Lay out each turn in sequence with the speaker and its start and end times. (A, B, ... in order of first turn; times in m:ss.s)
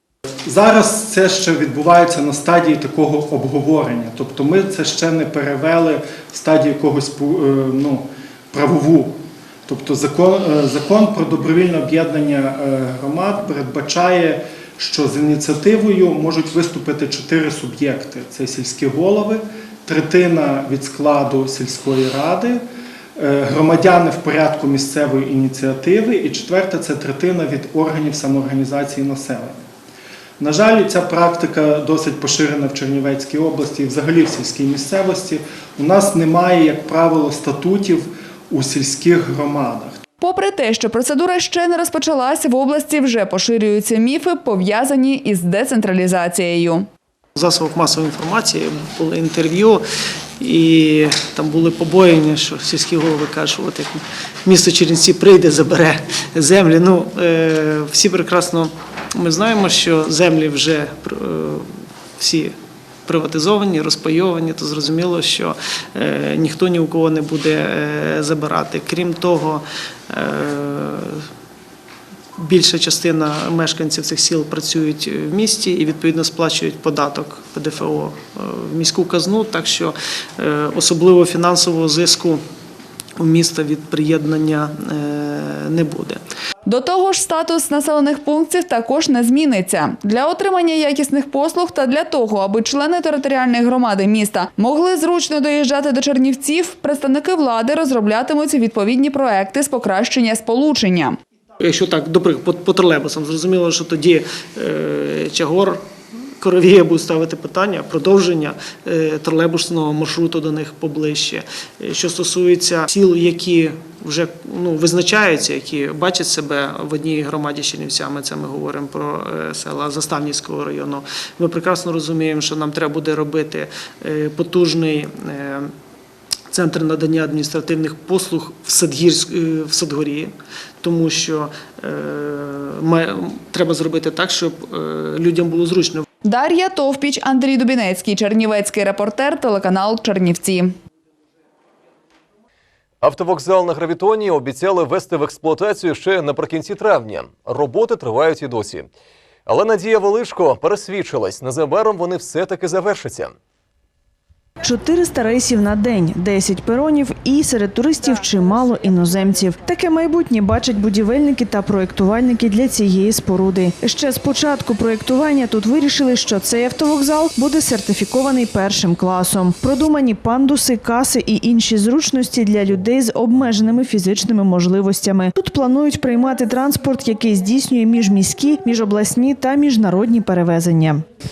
0:00.4-0:22.6 A
0:23.2-0:29.6 A
0:30.4-0:40.0 A
0:40.2-0:46.9 B
0:47.4-0:49.8 C
0:50.4-1:02.6 C
1:03.1-1:11.3 C
1:12.4-1:22.4 C
1:23.2-1:26.2 C
1:26.7-1:41.2 B
1:41.6-1:45.8 C
1:46.4-2:05.7 C
2:06.5-2:16.1 C
2:16.2-2:20.8 B
2:23.0-2:28.9 D
2:29.5-2:33.4 D
2:34.6-3:01.0 E